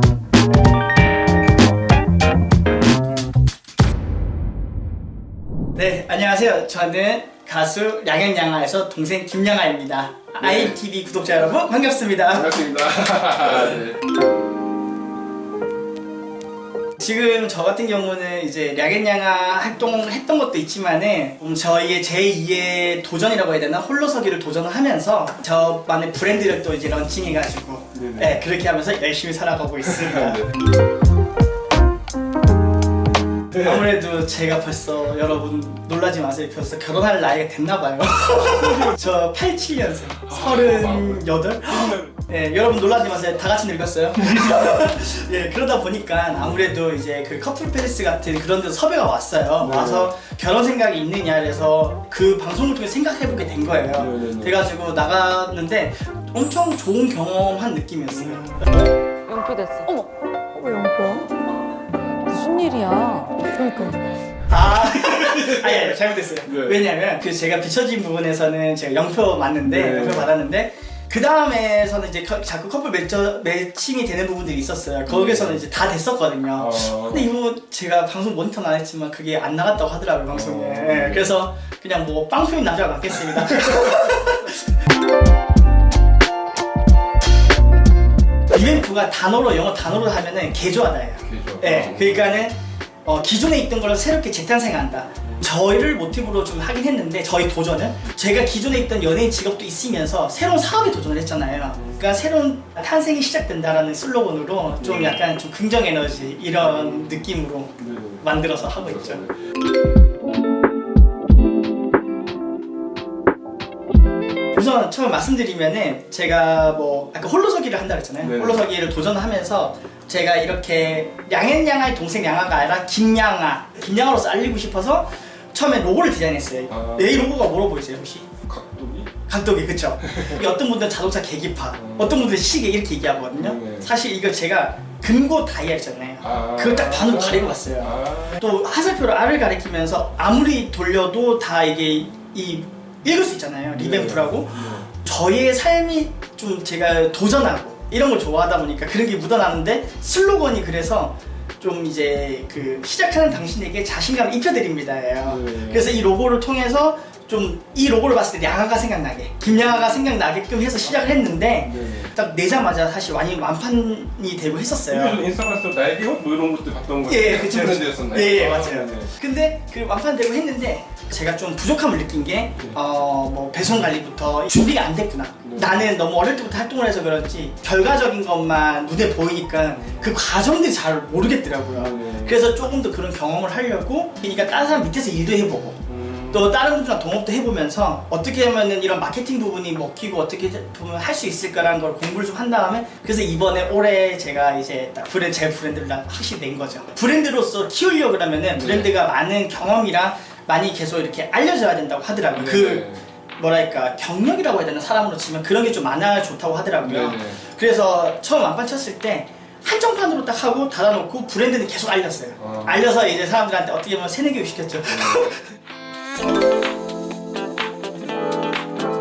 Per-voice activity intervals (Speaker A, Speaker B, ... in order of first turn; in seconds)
Speaker A: 5.8-12.6, 17.0-30.5, 33.5-58.6, 64.5-84.7, 88.5-109.2, 114.5-128.3, 129.3-165.2, 167.1-215.4
Speaker B: 10.4-10.8, 12.3-14.0, 27.9-28.4, 29.8-30.5, 38.6-38.9, 40.2-42.1, 49.6-50.1, 54.0-54.6, 64.7-66.8, 69.7-70.3, 75.1-75.6, 76.6-77.3, 80.3-81.3, 91.2-92.4, 104.8-105.2, 107.8-109.3, 118.2-118.7, 126.7-127.1, 128.5-129.1, 130.0-130.4, 131.8-132.2, 133.4-133.9, 136.2-138.4, 143.8-144.9, 155.2-155.9, 161.6-162.1, 164.9-169.1, 175.4-175.8, 181.7-182.5, 185.9-186.5, 198.6-198.9, 202.3-203.1, 206.8-207.4, 212.4-212.8, 214.9-215.3
Speaker C: 59.3-61.3, 62.3-64.0